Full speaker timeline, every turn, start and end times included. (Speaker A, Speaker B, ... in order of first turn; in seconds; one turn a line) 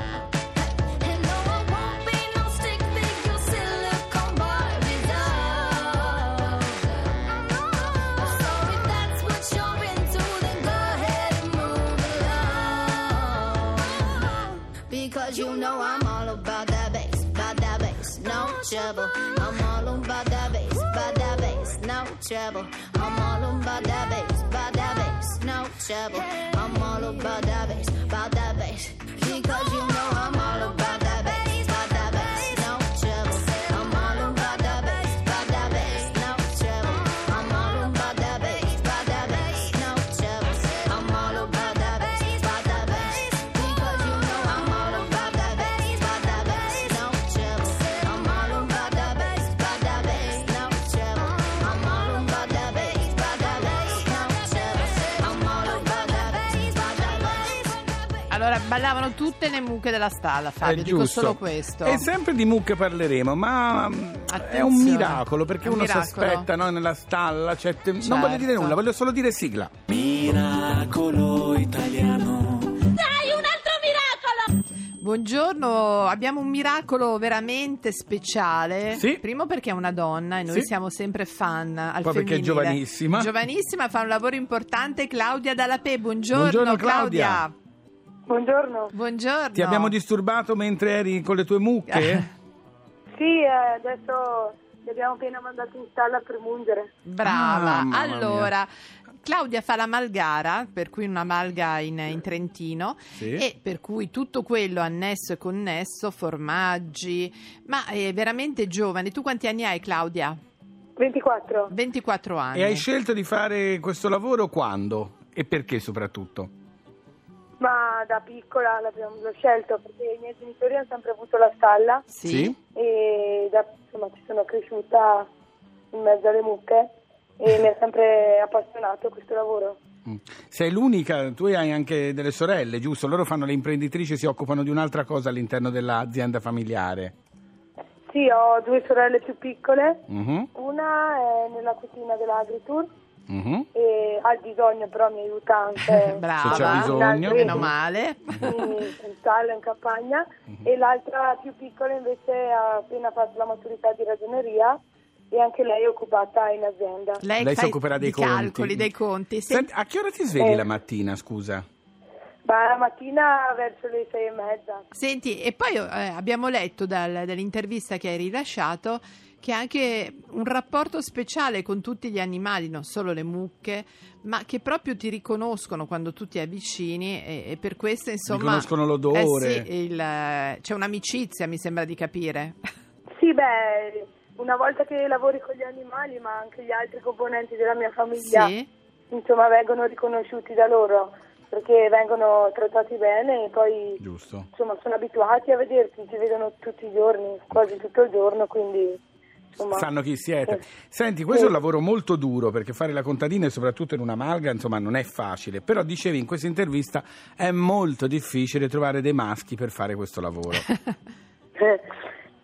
Speaker A: 0.6-58.3
Speaker B: 58.3-62.1
Speaker C: 60.6-69.7
Speaker B: 64.3-66.5
Speaker B: 68.0-68.8
Speaker D: 69.9-72.9
Speaker A: 73.2-74.3
Speaker B: 75.0-87.5
Speaker C: 78.9-79.2
Speaker C: 82.0-83.3
Speaker C: 86.3-87.4
Speaker E: 88.3-88.9
Speaker B: 88.9-89.9
Speaker C: 89.5-92.3
Speaker B: 91.9-92.3
Speaker E: 93.2-96.9
Speaker B: 97.0-98.7
Speaker C: 97.2-98.5
Speaker B: 99.2-110.4
Speaker C: 103.2-103.4
Speaker E: 111.0-111.7
Speaker B: 111.7-112.8
Speaker C: 112.5-116.5
Speaker E: 117.6-122.0
Speaker B: 122.1-122.5
Speaker C: 122.2-122.5
Speaker E: 122.7-125.3
Speaker E: 125.9-129.8
Speaker C: 130.1-137.2
Speaker E: 138.1-140.0
Speaker C: 140.1-140.5
Speaker E: 140.5-142.9
Speaker C: 143.3-143.7
Speaker E: 143.7-147.7
Speaker B: 146.0-148.6
Speaker C: 146.4-147.7
Speaker E: 148.4-154.8
Speaker E: 155.3-157.2
Speaker B: 157.2-159.7
Speaker C: 157.4-158.9
Speaker C: 159.5-161.6
Speaker E: 160.4-160.7
Speaker E: 162.4-164.8
Speaker B: 164.9-182.6
Speaker C: 178.3-179.7
Speaker E: 183.2-188.5
Speaker B: 188.2-188.7
Speaker E: 189.1-194.0
Speaker C: 194.0-194.5
Speaker E: 194.5-199.0
Speaker E: 199.6-199.9
Speaker C: 199.6-210.7